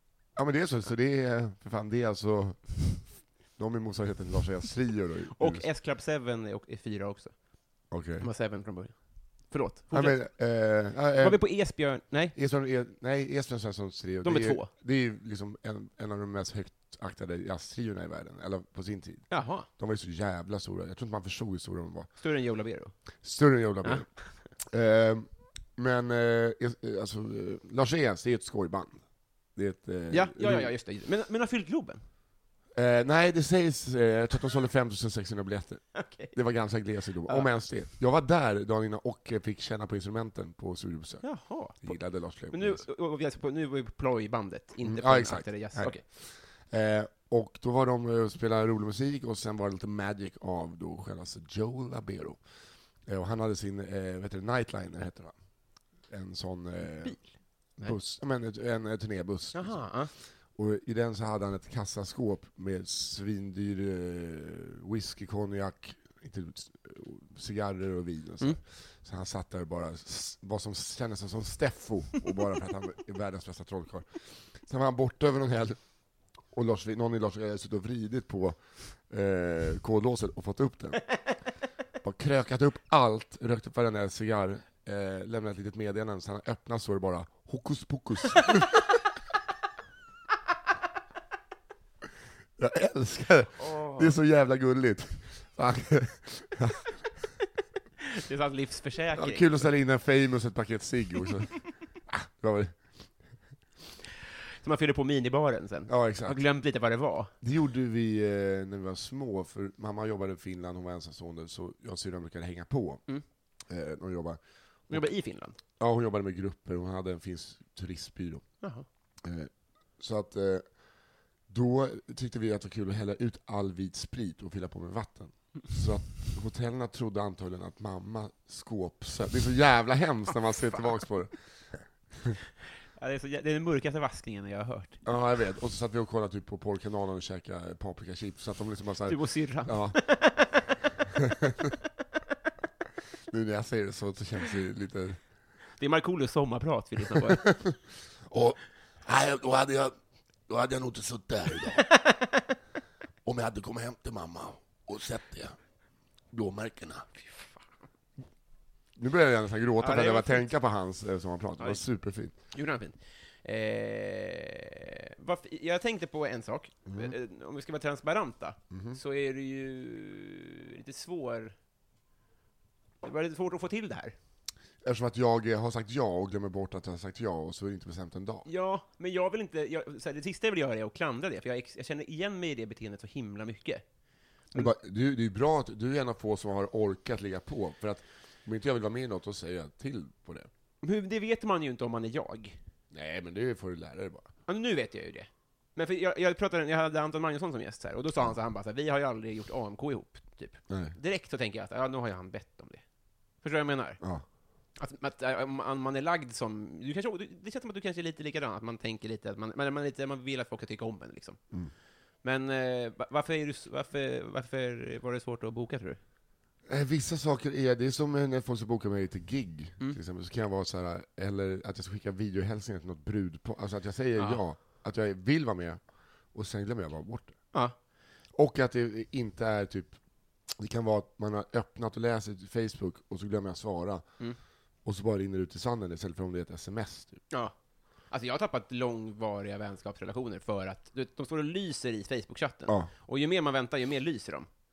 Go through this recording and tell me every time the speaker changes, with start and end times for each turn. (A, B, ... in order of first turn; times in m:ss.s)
0:00.4-0:05.7 A
0:05.3-0:07.4 B
0:07.9-0:08.3 A
0:08.2-0:10.2 B
0:09.9-0:11.4 A
0:11.2-0:12.4 B
0:12.4-0:22.1 A
0:14.2-0:14.7 B
0:19.3-0:19.7 B
0:22.2-0:23.0 B
0:23.2-0:29.0 A
0:23.8-0:24.4 B
0:29.6-0:30.7 A
0:30.1-0:32.0 B
0:32.7-0:41.3 A
0:35.9-0:36.4 B
0:37.2-0:37.5 B
0:41.2-0:42.0 B
0:41.8-0:42.8 A
0:42.5-0:46.0 B
0:44.8-0:52.4 A
0:53.1-0:55.3 A
0:56.1-1:00.0 A
0:57.0-0:58.0 B
0:59.5-1:00.1 B
1:00.6-1:15.8 A
1:16.5-1:21.2 A
1:22.0-1:29.0 A
1:32.6-1:37.2 A
1:33.6-1:34.2 B
1:38.0-1:39.7 B
1:39.1-1:42.8 A
1:44.6-1:47.3 B
1:45.9-1:46.4 A
1:47.4-1:53.0 A
1:53.7-1:55.1 A
1:54.9-1:55.6 B
1:55.8-1:58.5 A
1:58.6-1:58.9 B
1:59.2-2:00.7 A
2:01.5-2:12.4 A
2:13.0-2:15.0 B
2:15.0-2:20.4 A
2:19.1-2:20.7 B
2:21.3-2:21.7 A
2:23.3-2:25.2 A
2:25.8-2:27.5 B
2:27.1-2:27.8 A
2:28.3-2:30.0 A
2:30.5-2:31.9 A
2:32.0-2:32.3 B
2:33.2-2:35.6 A
2:36.3-2:37.2 A
2:39.0-2:42.4 A
2:39.8-2:40.5 B
2:41.6-2:51.6 B
2:46.9-2:47.1 A
2:48.7-2:49.0 A
2:53.0-2:54.2 B
2:54.8-2:58.5 A
2:58.5-3:03.8 B
3:04.5-3:10.5 A
3:10.8-3:12.6 B
3:12.9-3:14.3 A
3:14.5-3:22.8 B
3:20.7-3:21.0 A
3:23.4-3:24.0 B
3:24.8-3:31.4 B
3:32.2-3:36.0 B
3:36.7-3:45.8 A
3:46.3-3:47.4 A
3:48.3-3:54.1 A
3:54.8-3:57.2 A
3:58.1-4:04.5 B